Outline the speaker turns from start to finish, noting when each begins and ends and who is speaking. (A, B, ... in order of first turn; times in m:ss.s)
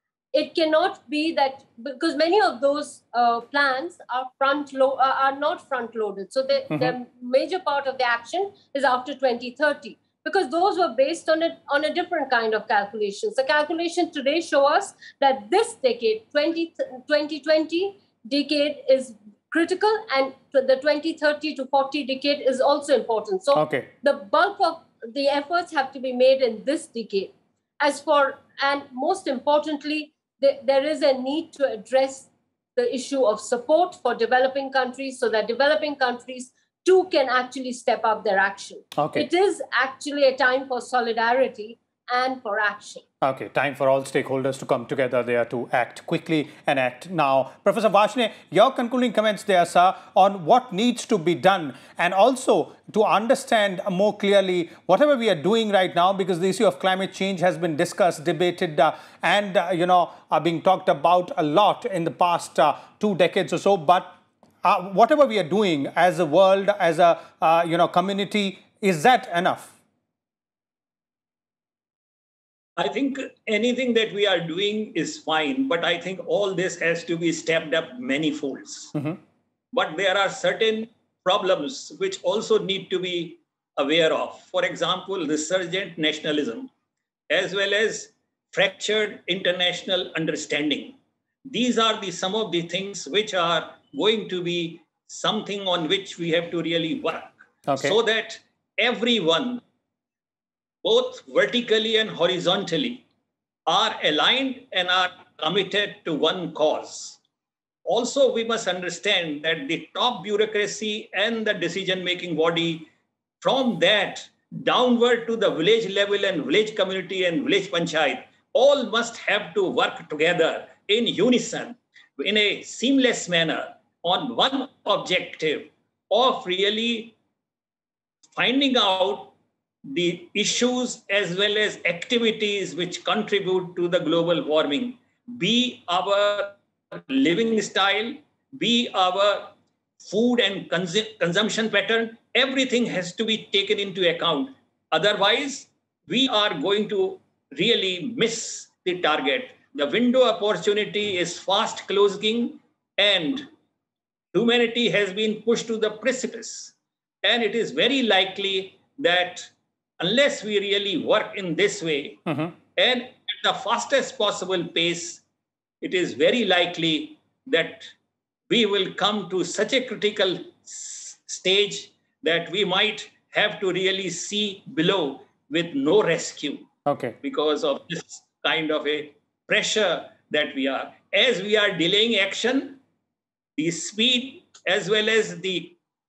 0:00.3-0:43.0 A
0:23.5-0:23.9 B
0:39.0-0:39.3 B
0:43.2-1:09.7 B
1:12.8-1:18.9 C
1:19.7-1:26.7 C
1:27.3-1:39.6 C
1:37.7-1:38.0 B
1:40.8-1:43.0 C
1:43.6-1:47.2 C
1:47.8-1:52.9 C
1:53.4-2:07.2 C
2:08.4-2:33.5 C
2:34.3-2:45.2 C
2:42.3-2:42.5 B
2:45.8-2:47.9 C
2:48.5-2:56.7 C
2:56.8-2:57.2 B
2:57.2-3:02.8 C
3:03.6-3:05.8 C